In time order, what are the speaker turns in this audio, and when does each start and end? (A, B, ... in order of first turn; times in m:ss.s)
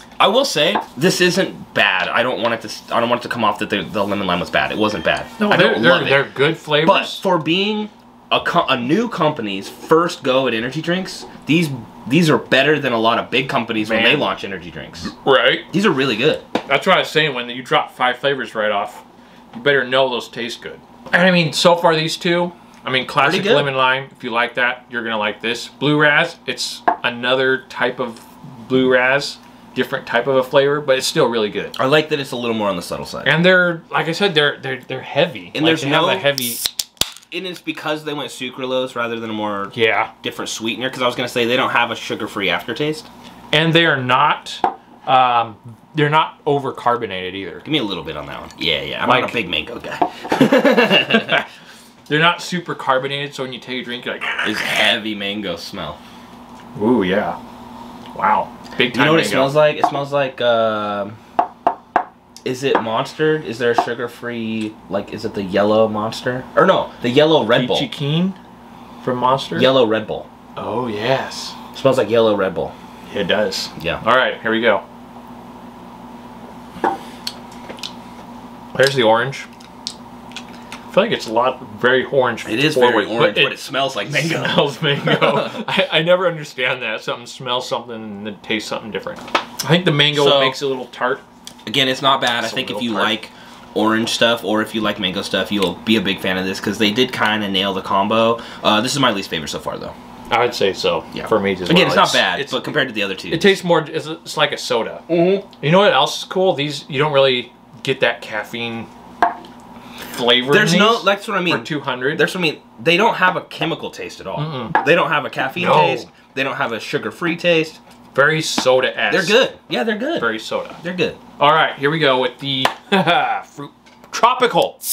0:00.2-0:15.1 A
0:05.4-0:07.2 B
0:13.8-0:14.3 B
0:15.1-0:15.7 B
0:15.7-0:16.4 A
0:16.6-0:31.8 B
0:23.2-0:23.7 A
0:31.8-0:33.4 A
0:33.2-0:36.6 B
0:35.5-0:36.5 A
0:37.3-0:43.1 A
0:39.7-0:40.1 B
0:43.5-0:47.6 B
0:47.6-0:51.4 A
0:49.0-0:49.4 B
0:51.0-0:51.4 B
0:52.1-0:54.8 B
0:54.4-0:56.0 A
0:56.8-0:57.4 B
0:58.1-0:59.6 B
0:58.9-1:01.2 A
1:02.4-1:07.9 A
1:07.5-1:08.4 B
1:09.0-1:09.7 B
1:09.5-1:10.3 A
1:10.6-1:11.5 B
1:11.8-1:12.7 A
1:13.1-1:14.8 B
1:18.7-1:19.5 B
1:20.9-1:31.2 B
1:22.4-1:25.6 A
1:30.1-1:30.6 A
1:31.6-1:39.9 A
1:32.4-1:33.1 B
1:40.3-1:42.7 B
1:41.1-1:43.6 A
1:43.3-1:48.9 B
1:45.1-1:45.4 A
1:50.1-1:52.2 B
1:50.5-1:57.8 A
1:54.4-1:54.8 B
1:55.5-1:56.1 B
1:58.1-1:59.4 B
1:59.1-2:01.2 A
2:00.2-2:00.8 B
2:01.4-2:04.8 B